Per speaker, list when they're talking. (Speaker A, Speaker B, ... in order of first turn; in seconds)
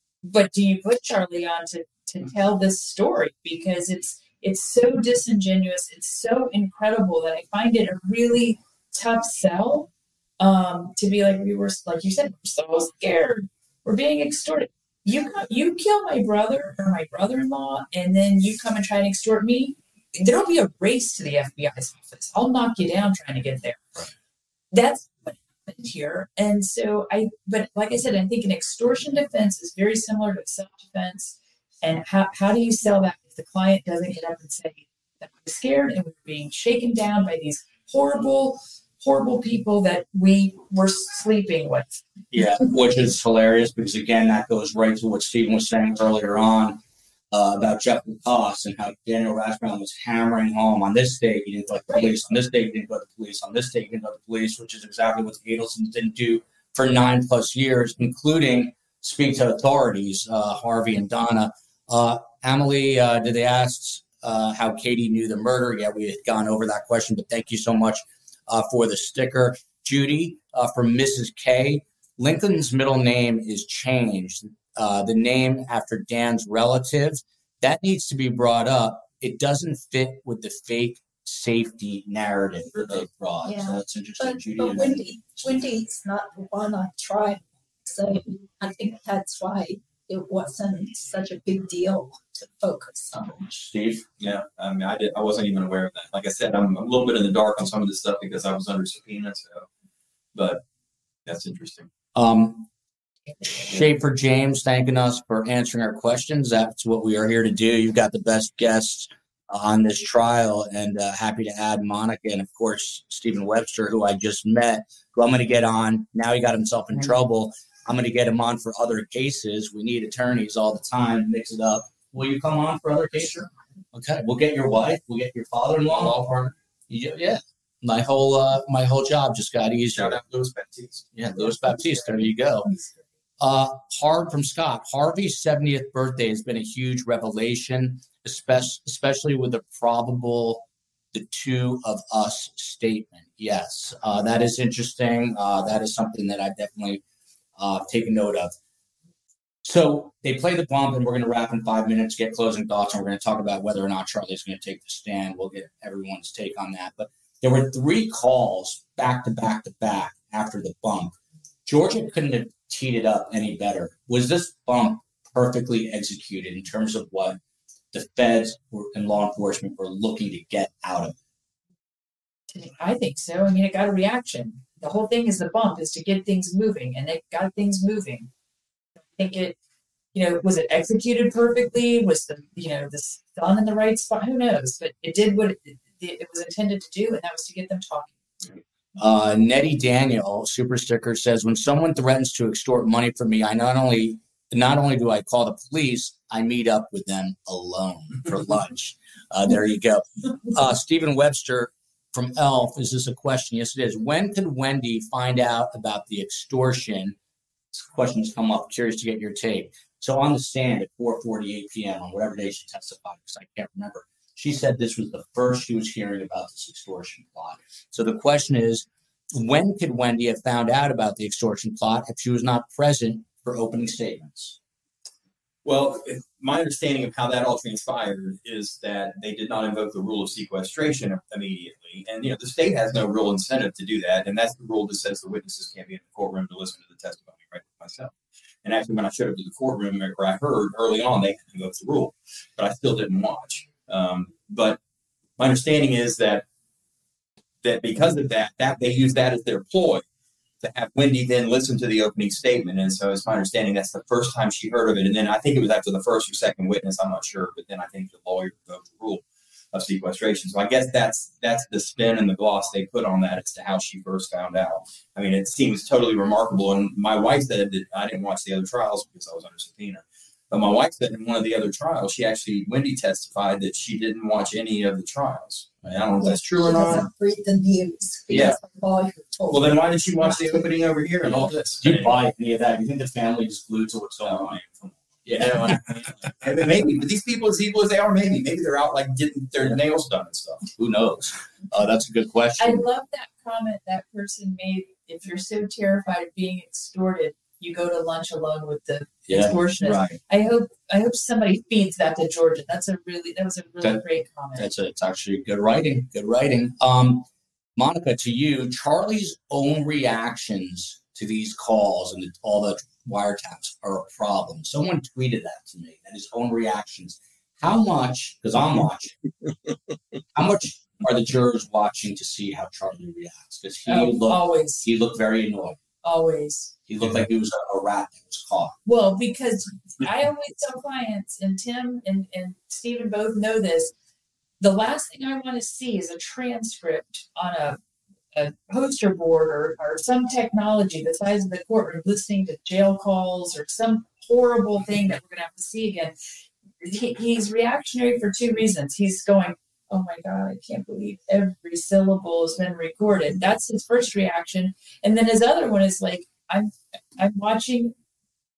Speaker A: 0.2-9.9, 10.4-23.8, 24.7-42.0, 172.5-178.3, 179.1-179.6, 180.1-188.1, 292.6-304.7, 323.9-324.8, 326.0-326.7, 328.8-333.9, 334.6-337.8, 338.3-346.1, 346.8-357.9
Speaker B: 42.3-46.8, 47.3-85.5, 93.1-94.0, 102.1-102.7, 103.4-126.2, 126.9-130.2, 131.1-132.7, 133.4-147.0, 147.6-148.5, 149.6-161.1, 161.7-167.4, 167.9-171.1, 189.0-207.2, 207.7-224.6, 281.8-284.6, 285.2-286.1, 290.8-292.8, 299.3-299.6, 304.6-319.1, 320.3-325.8, 326.9-328.8
Speaker C: 83.4-93.2, 276.2-280.6
Speaker D: 94.2-99.7, 100.3-100.6, 101.2-101.9, 125.9-126.5, 129.9-131.2, 225.6-238.1, 238.6-244.8, 245.4-246.4, 247.6-250.0, 250.6-277.1, 278.3-278.6, 279.5-282.2, 284.2-290.7, 299.8-300.2